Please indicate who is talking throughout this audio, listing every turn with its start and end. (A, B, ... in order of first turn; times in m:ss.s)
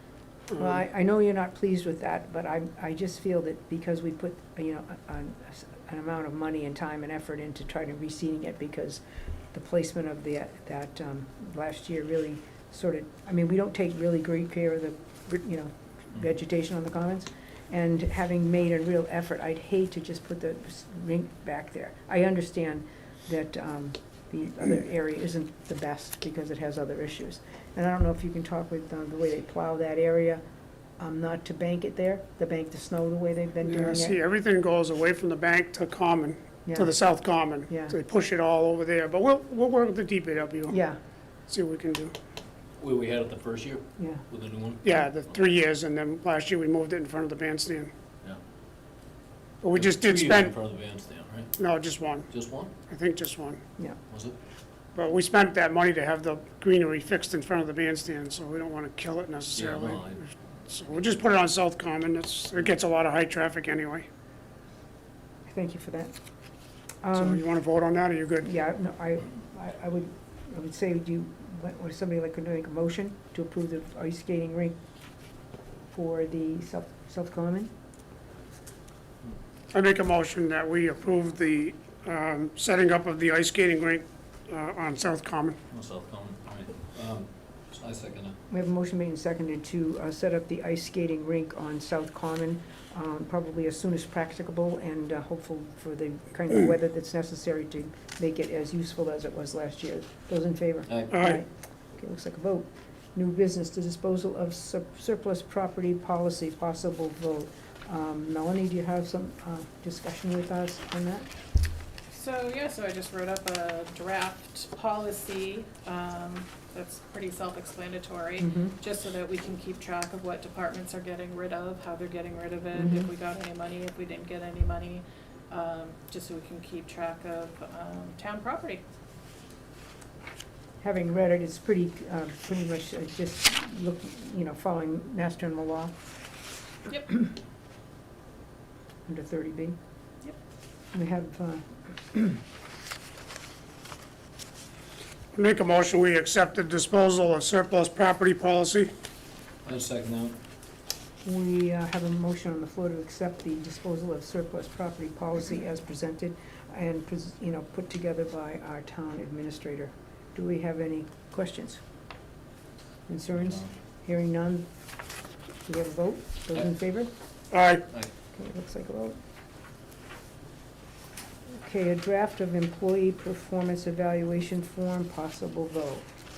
0:00.5-0:00.8 A
0:00.6-0:30.4 B
0:31.0-0:34.2 B
0:33.6-0:40.8 A
0:36.7-0:36.9 B
0:37.7-0:38.0 B
0:40.7-0:41.0 B
0:41.5-0:42.2 A
0:42.8-0:45.4 C
0:44.0-0:44.2 B
0:44.8-0:47.9 A
0:49.6-0:50.5 A
0:49.7-0:51.5 C
0:51.6-0:52.3 A
0:52.3-0:52.7 C
0:52.9-0:53.6 A
0:54.1-0:54.4 C
0:55.0-1:00.2 A
0:59.6-1:00.2 C
1:00.7-1:04.1 A
1:05.5-1:06.2 B
1:07.0-1:07.4 B
1:07.1-1:08.5 A
1:08.4-1:14.8 B
1:15.9-1:17.7 B
1:19.7-1:25.6 A
1:25.7-1:28.4 C
1:28.5-1:51.3 B
1:40.9-1:41.2 C
1:41.1-1:41.4 A
1:52.1-2:08.8 D
1:58.4-1:58.8 B
2:02.7-2:03.1 B
2:10.8-2:15.9 B
2:19.1-2:19.8 B
2:20.9-2:22.4 B
2:25.4-2:28.9 A
2:29.6-2:30.4 C
2:31.2-2:41.8 B
2:43.1-2:44.7 B
2:45.6-2:47.1 B
2:47.5-2:47.8 A
2:48.3-2:49.2 B
2:51.5-2:56.0 B